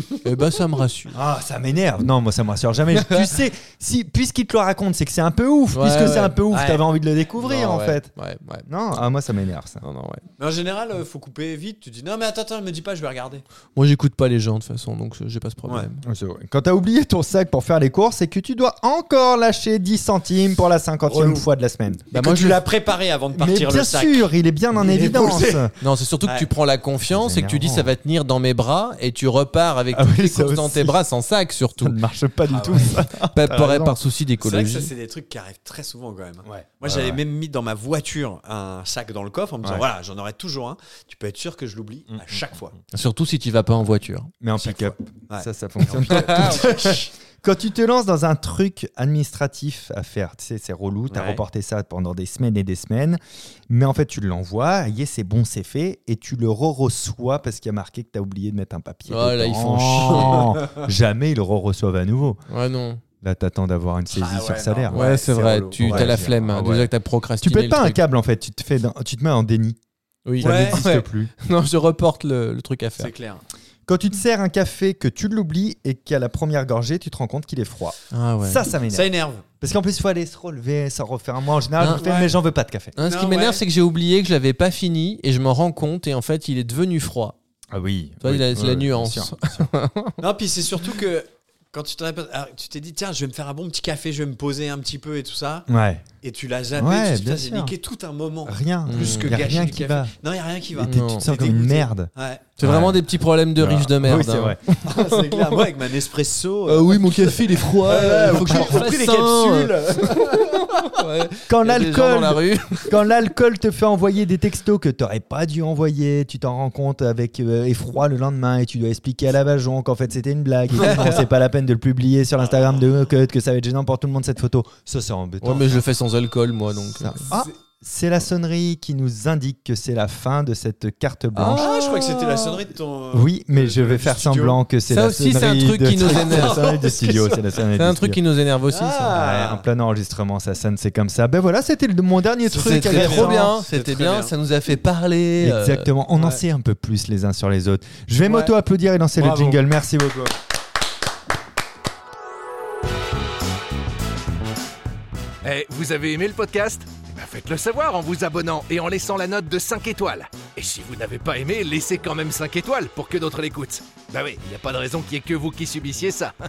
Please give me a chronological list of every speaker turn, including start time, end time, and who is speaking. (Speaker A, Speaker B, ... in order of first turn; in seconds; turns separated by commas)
Speaker A: 0.2-1.2, Speaker B: 1.1-8.1, Speaker A: 5.7-6.4, Speaker C: 6.0-6.8, Speaker A: 7.4-8.7, Speaker B: 8.7-9.8, Speaker A: 9.8-10.2, Speaker C: 10.4-13.4, Speaker A: 13.8-16.0, Speaker B: 16.0-22.1, Speaker C: 21.1-21.4, Speaker A: 22.1-22.6, Speaker C: 22.1-26.5, Speaker B: 23.4-25.7, Speaker A: 25.8-32.0, Speaker B: 27.1-27.9, Speaker B: 29.9-31.0, Speaker B: 31.8-34.0, Speaker C: 32.5-32.9, Speaker A: 33.1-34.9, Speaker C: 34.4-42.8, Speaker B: 36.5-37.2, Speaker A: 42.9-44.3, Speaker B: 44.4-62.4, Speaker C: 44.6-47.1, Speaker C: 51.1-51.4, Speaker A: 59.1-60.6, Speaker C: 60.1-60.8, Speaker A: 62.5-63.0, Speaker B: 63.2-65.0, Speaker C: 64.1-66.2, Speaker A: 64.9-68.0, Speaker B: 65.8-66.9, Speaker B: 67.4-69.8, Speaker A: 70.3-73.1, Speaker B: 70.4-71.3, Speaker C: 70.4-70.8, Speaker C: 73.0-73.4, Speaker B: 73.9-82.9, Speaker A: 78.1-78.7, Speaker C: 78.9-79.5, Speaker A: 81.8-82.1, Speaker C: 82.0-82.4, Speaker A: 83.0-87.4, Speaker C: 83.0-83.6, Speaker B: 87.7-89.7, Speaker A: 88.2-90.2, Speaker C: 90.2-95.7, Speaker B: 95.7-96.1, Speaker C: 96.2-102.5, Speaker B: 96.8-97.7, Speaker B: 98.5-100.1, Speaker A: 98.9-99.4, Speaker B: 100.8-103.0, Speaker A: 100.8-101.3, Speaker A: 102.6-105.7, Speaker B: 103.6-104.8, Speaker C: 104.8-110.9, Speaker A: 106.7-113.0, Speaker B: 108.4-108.9, Speaker B: 111.5-125.8, Speaker C: 120.8-121.1, Speaker A: 125.4-127.3, Speaker B: 127.0-132.6, Speaker A: 131.3-132.2, Speaker C: 131.5-134.6, Speaker B: 133.1-138.2, Speaker A: 134.8-136.7, Speaker C: 136.0-137.4, Speaker A: 137.7-139.2, Speaker C: 138.7-139.7, Speaker B: 139.1-143.5, Speaker C: 142.5-144.3, Speaker A: 142.5-145.9, Speaker B: 145.4-150.3, Speaker C: 146.2-146.4, Speaker C: 148.2-148.5, Speaker C: 149.2-149.6, Speaker D: 155.4-166.3